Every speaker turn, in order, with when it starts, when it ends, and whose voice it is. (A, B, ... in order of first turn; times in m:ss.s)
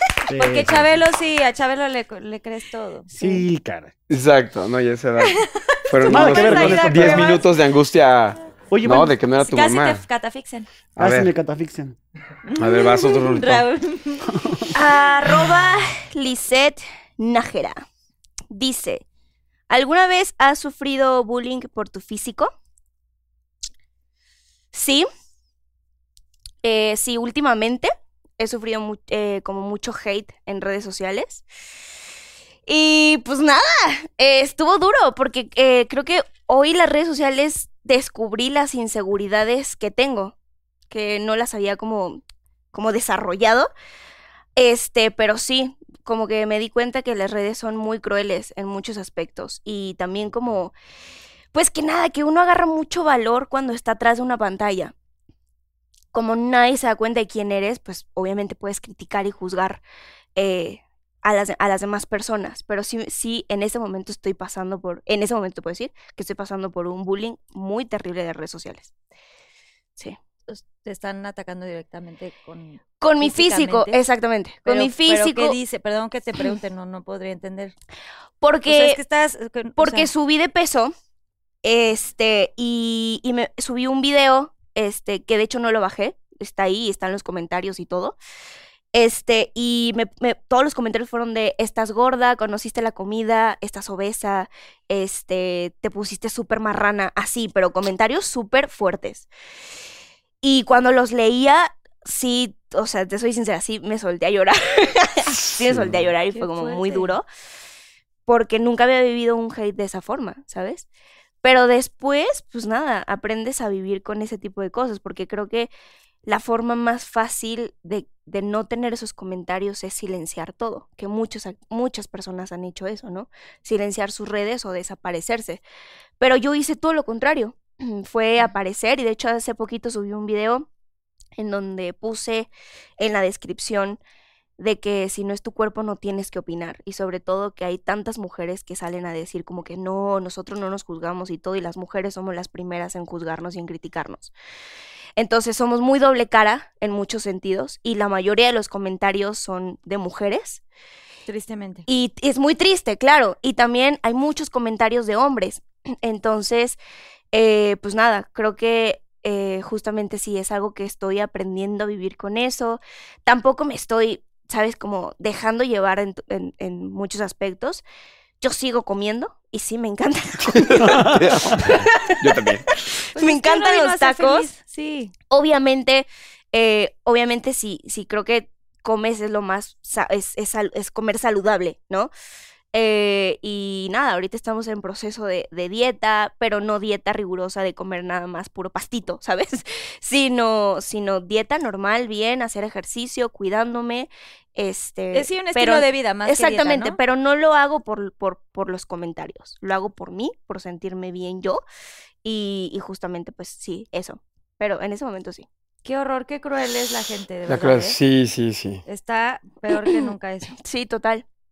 0:00.3-0:01.1 A
0:00.4-0:03.4 B
0:03.1-0:03.9 A
0:04.1-0:10.0 C
0:06.0-0:07.5 B
0:06.0-0:07.4 A
0:08.7-0:09.1 A
0:09.4-0:10.7 B
0:11.0-0:11.3 C
0:11.0-0:12.0 A
0:12.5-0:14.3 B
0:12.6-0:13.6 C
0:14.4-0:14.7 A
0:14.7-0:17.8 D
0:18.5-0:19.0 D
0:19.7-0:22.5 D
0:24.7-0:25.1 D
0:26.6-0:31.4 D
0:32.7-0:40.4 D
0:40.9-0:42.2 D
0:42.7-0:43.7 D
0:44.6-0:50.7 D
0:51.5-0:54.9 D
0:56.1-0:59.8 D
1:00.4-1:08.9 D
1:10.5-1:14.0 B
1:13.0-1:15.6 D
1:14.6-1:17.8 B
1:18.4-1:19.0 D
1:18.7-1:20.1 B
1:19.8-1:20.9 D
1:21.6-1:28.2 D
1:28.9-1:39.3 D
1:40.4-1:47.3 D
1:45.7-1:46.0 C
1:46.3-1:47.2 B
1:48.3-1:50.9 D
1:51.4-1:55.7 D
1:56.2-2:05.6 D
2:06.2-2:10.7 D
2:11.4-2:14.0 D
2:14.6-2:24.3 D
2:25.2-2:30.6 D
2:31.3-2:31.9 B
2:31.9-2:36.8 D
2:37.3-2:47.8 D
2:48.4-2:52.5 D
2:50.6-2:52.8 C
2:50.8-2:51.3 A
2:53.1-2:54.5 D
2:53.1-2:55.1 B
2:55.3-3:02.1 D
3:02.7-3:21.6 D
3:15.1-3:17.0 B
3:22.2-3:25.5 D
3:25.8-3:28.0 B
3:27.5-3:28.8 C
3:28.9-3:30.5 B
3:29.7-3:31.2 D